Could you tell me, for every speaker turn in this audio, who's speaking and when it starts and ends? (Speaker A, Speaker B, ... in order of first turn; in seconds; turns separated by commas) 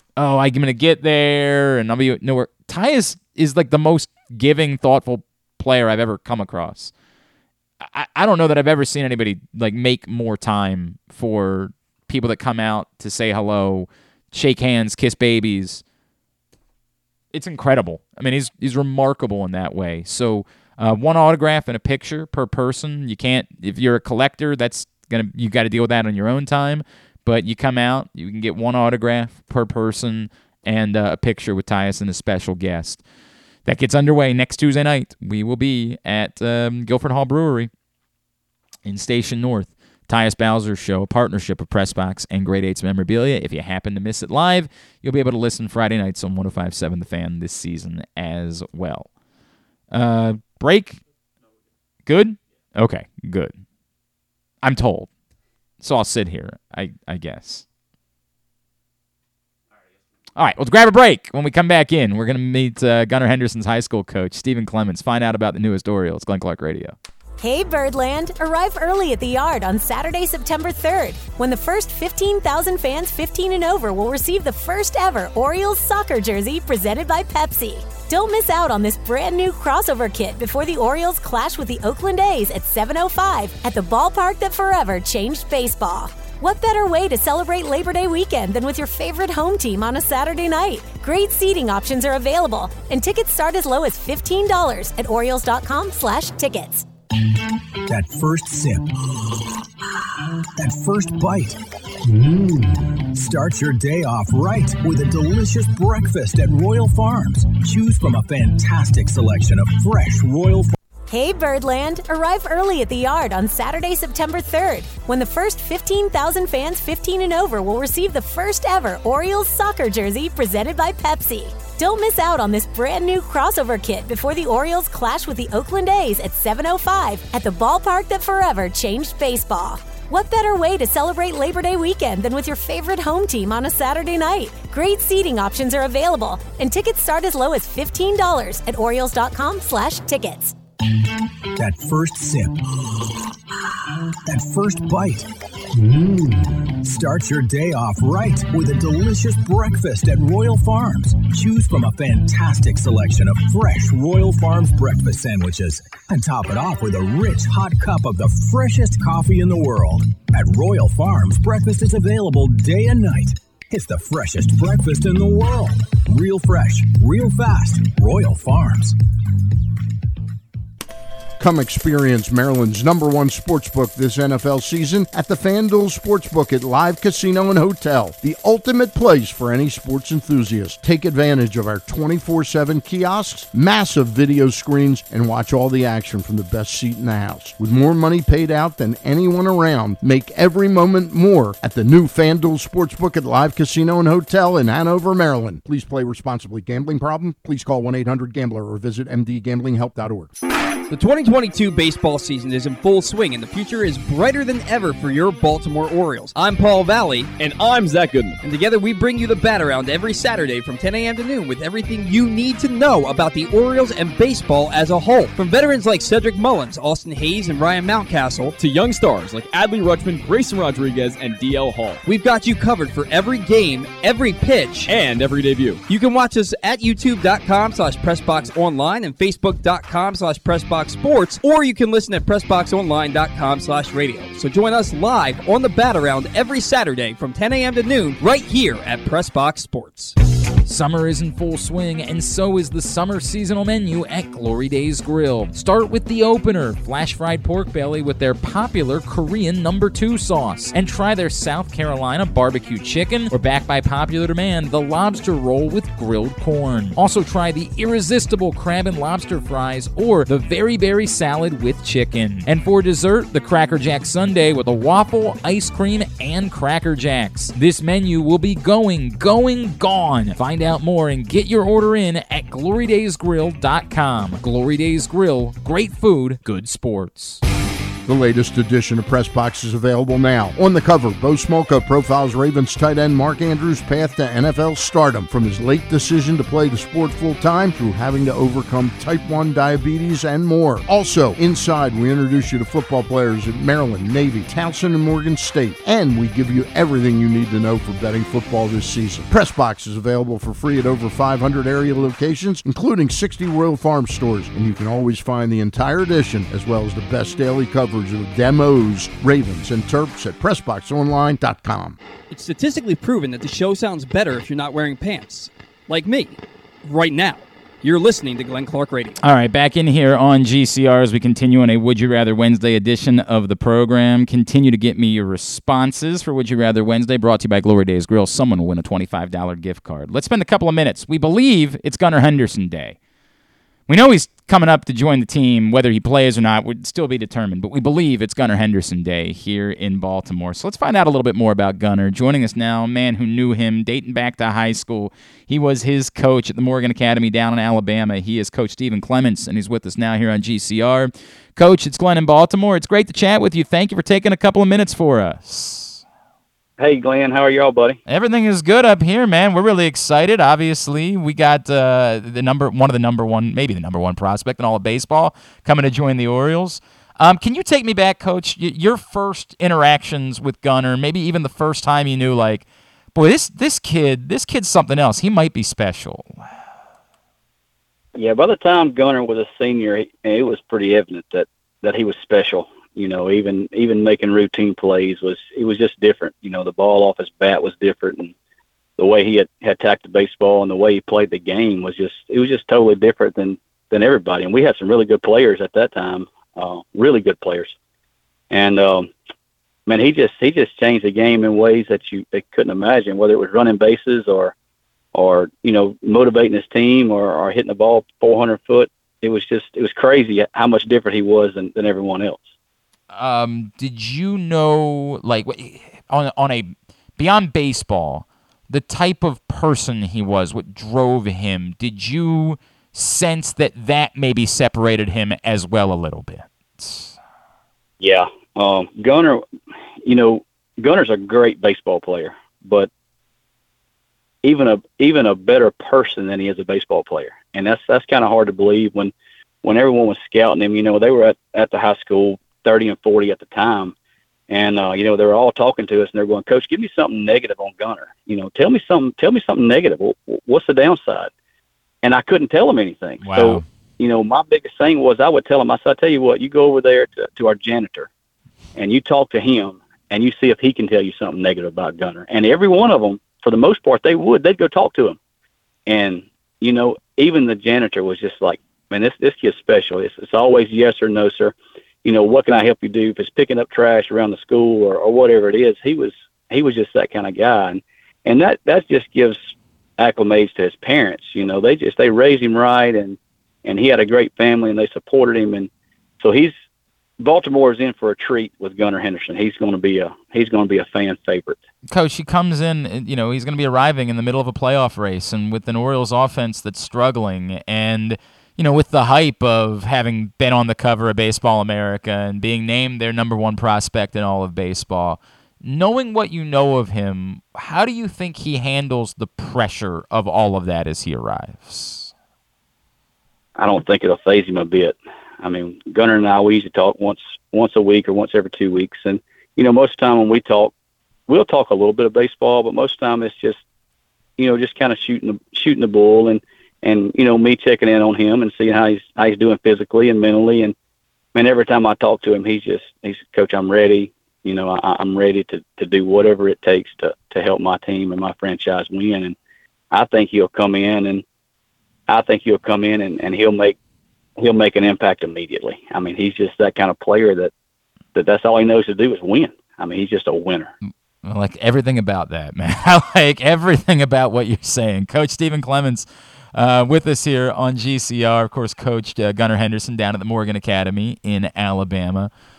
Speaker A: 0.2-6.9, Speaker A: 7.8-15.8, Speaker A: 17.3-33.0, Speaker A: 33.6-37.7, Speaker A: 38.8-49.1, Speaker A: 49.9-51.0, Speaker A: 52.0-53.5, Speaker A: 54.6-55.1, Speaker A: 55.8-57.6, Speaker A: 60.4-66.9, Speaker B: 67.4-96.8, Speaker C: 97.8-99.4, Speaker C: 100.5-110.7, Speaker B: 111.1-140.5, Speaker C: 141.6-143.1, Speaker C: 144.2-169.0, Speaker D: 171.4-200.3, Speaker E: 200.9-207.4, Speaker E: 208.4-218.6, Speaker F: 218.8-222.0, Speaker E: 222.0-224.9, Speaker E: 225.8-240.1, Speaker A: 240.6-277.4, Speaker D: 278.1-312.0, Speaker E: 312.3-319.2, Speaker A: 319.2-333.0, Speaker A: 333.9-356.0, Speaker G: 356.8-358.0, Speaker A: 358.1-376.4, Speaker G: 378.1-388.3, Speaker G: 389.0-397.7, Speaker G: 398.5-399.1, Speaker G: 399.9-404.5, Speaker G: 405.1-412.5, Speaker A: 413.1-427.1, Speaker G: 428.0-429.4, Speaker G: 430.0-432.9, Speaker G: 434.4-443.9, Speaker G: 444.5-451.3, Speaker G: 452.0-458.1, Speaker A: 453.2-453.6, Speaker G: 458.7-465.2, Speaker G: 465.9-486.5, Speaker G: 487.2-491.6, Speaker A: 491.9-512.1, Speaker G: 513.5-520.7, Speaker G: 521.3-523.6, Speaker G: 524.4-530.8, Speaker G: 531.3-539.4, Speaker G: 539.9-541.2, Speaker G: 542.1-543.8, Speaker G: 544.4-547.5, Speaker G: 548.1-550.7, Speaker A: 551.2-562.3